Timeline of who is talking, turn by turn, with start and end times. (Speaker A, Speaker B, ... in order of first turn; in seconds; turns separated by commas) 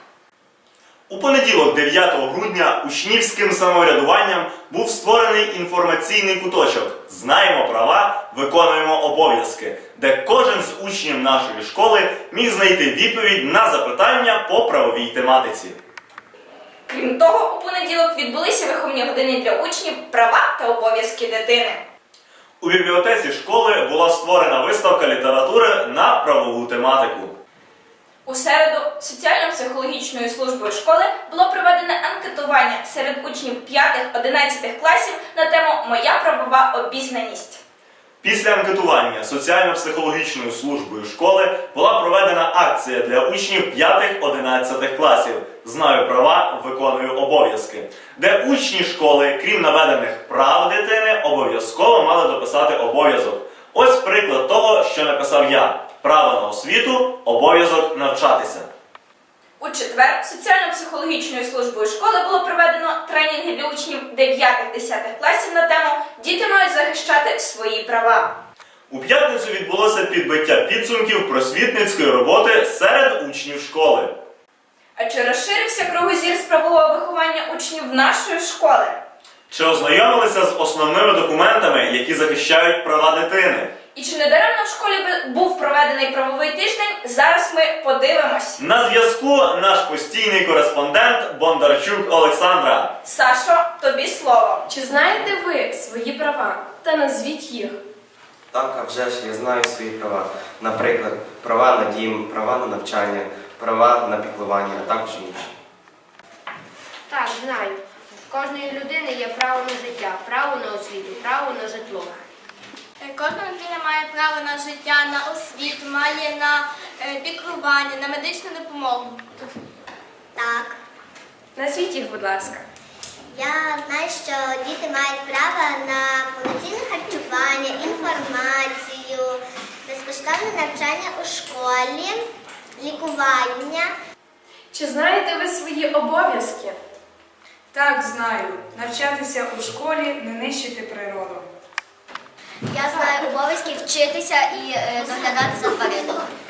Speaker A: 1.1-15.8, Speaker B: 16.9-21.8, Speaker A: 22.6-27.3, Speaker B: 28.2-37.6, Speaker A: 38.2-58.7, Speaker B: 59.6-68.3, Speaker A: 68.9-74.2, Speaker B: 75.0-79.0, Speaker A: 79.5-83.7, Speaker B: 83.9-88.6, Speaker A: 88.6-92.9, Speaker B: 93.0-94.6, Speaker C: 94.7-97.8, Speaker D: 98.5-105.5, Speaker E: 108.3-111.2, Speaker F: 113.0-119.3, Speaker G: 120.3-120.8, Speaker C: 121.5-122.6, Speaker G: 123.3-132.2, Speaker G: 132.8-133.9, Speaker C: 134.7-136.8, Speaker H: 137.7-141.4, Speaker G: 142.7-146.2